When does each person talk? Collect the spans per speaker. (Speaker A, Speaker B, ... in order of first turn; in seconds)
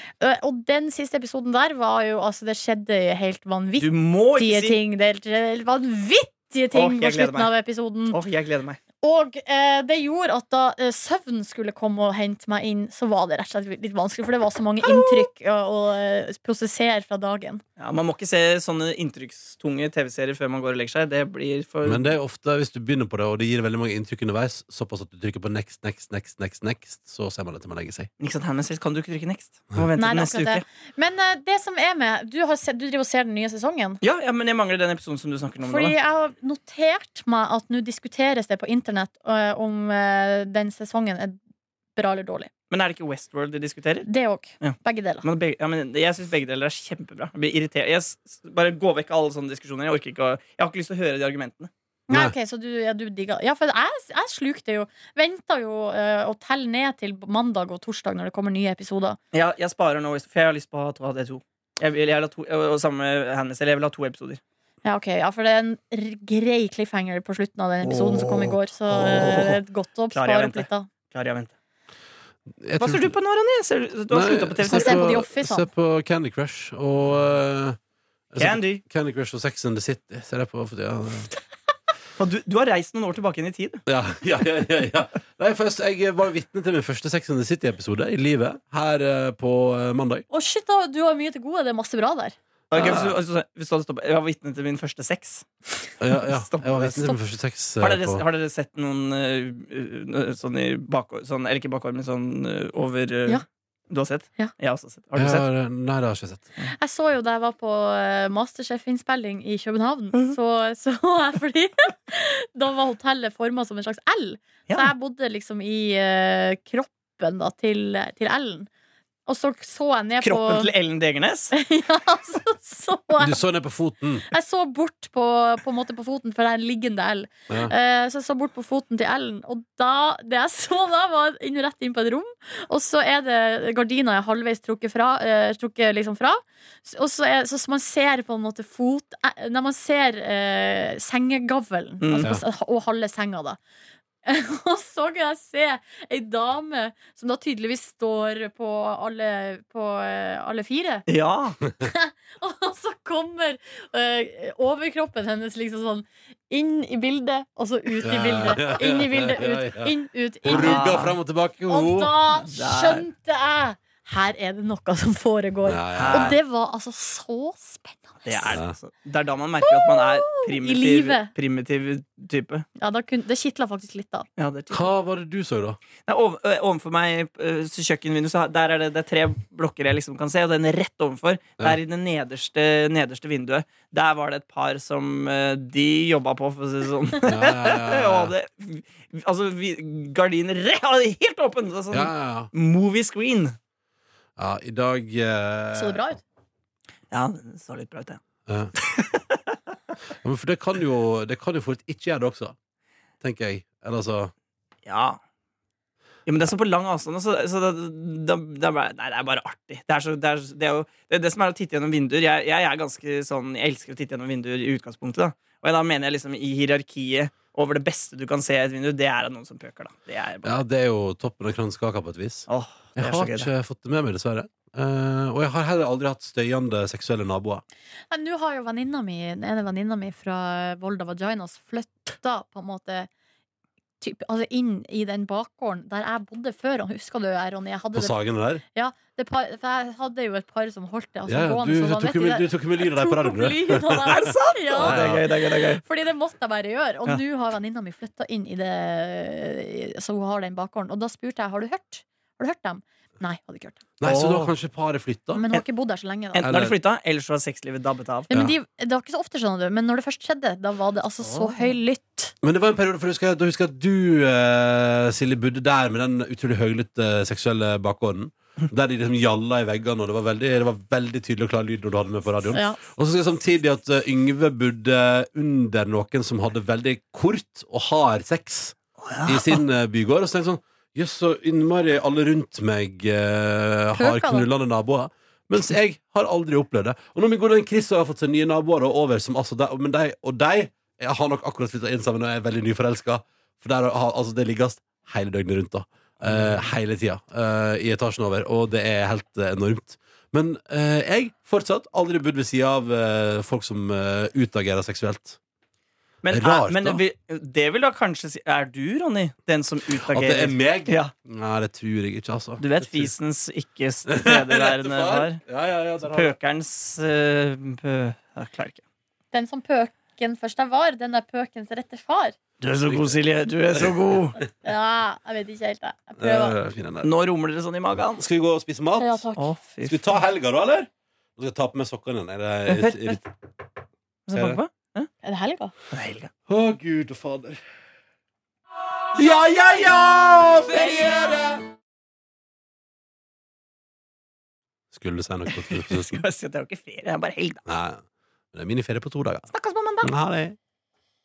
Speaker A: 0.2-8.2, 9.0-17.6, 30.0-34.0, 35.6-41.4, 42.0-42.5, 44.0-45.2, 52.1-59.2, 64.8-70.9, 74.7-75.7, 90.3-92.3, 106.7-118.7, 119.3-120.7, 121.5-123.4, 124.3-143.6, 144.2-151.0, 151.8-161.0, 161.7-168.6, 169.6-171.3, 172.8-174.3, 195.7-196.2, 228.1-233.1, 234.0-253.8, 255.3-256.5, 258.3-262.3, 272.5-272.8, 283.9-284.5, 319.3-322.4, 324.6-326.6, 329.0-329.4, 335.2-335.7
Speaker B: 3.8-4.8, 6.7-7.5, 8.1-8.8, 17.8-22.1, 28.2-30.6, 34.0-35.9, 42.7-44.1, 44.6-51.7, 59.3-64.4, 67.8-69.6, 70.1-71.5, 72.8-75.1, 78.4-78.8, 82.2-83.8, 92.7-95.5, 96.3-97.1, 97.8-105.5, 120.2-121.5, 142.0-142.3, 151.1-151.6, 160.4-161.1, 162.3-163.1, 165.9-166.4, 168.2-172.7, 174.4-174.9, 176.1-193.6, 197.1-198.2, 198.8-199.6, 204.8-205.2, 206.3-220.6, 222.5-223.5, 244.1-245.8, 254.0-254.5, 256.3-258.3, 261.2-261.7, 279.0-279.6, 306.2-311.1, 312.6-315.4, 316.1-318.8, 322.6-324.4, 327.0-328.2, 329.4-330.1, 332.7-333.2, 334.3-335.1, 335.9-336.3, 345.7-347.6, 349.5-350.1
Speaker C: 21.8-28.1, 52.1-52.3, 72.6-73.2, 74.1-77.8, 78.3-81.3, 83.9-90.2, 92.7-93.2, 96.0-98.2, 105.2-106.5, 123.2-124.2, 158.0-162.1, 165.6-166.4, 174.7-175.8, 187.3-188.3, 191.9-192.5, 194.4-196.0, 198.5-198.7, 200.2-202.6, 203.2-204.3, 220.4-227.6, 237.9-238.6, 241.3-245.2, 254.0-255.4, 256.4-256.8, 258.3-258.6, 262.4-305.4, 306.3-307.0, 310.0-313.1, 314.1-316.3, 322.8-323.2, 323.7-324.5, 326.2-327.1, 328.2-329.2, 329.8-333.2, 334.3-334.6, 336.5-337.6, 339.1-341.7, 344.9-346.2, 347.6-348.0, 348.5-349.5, 350.0-350.6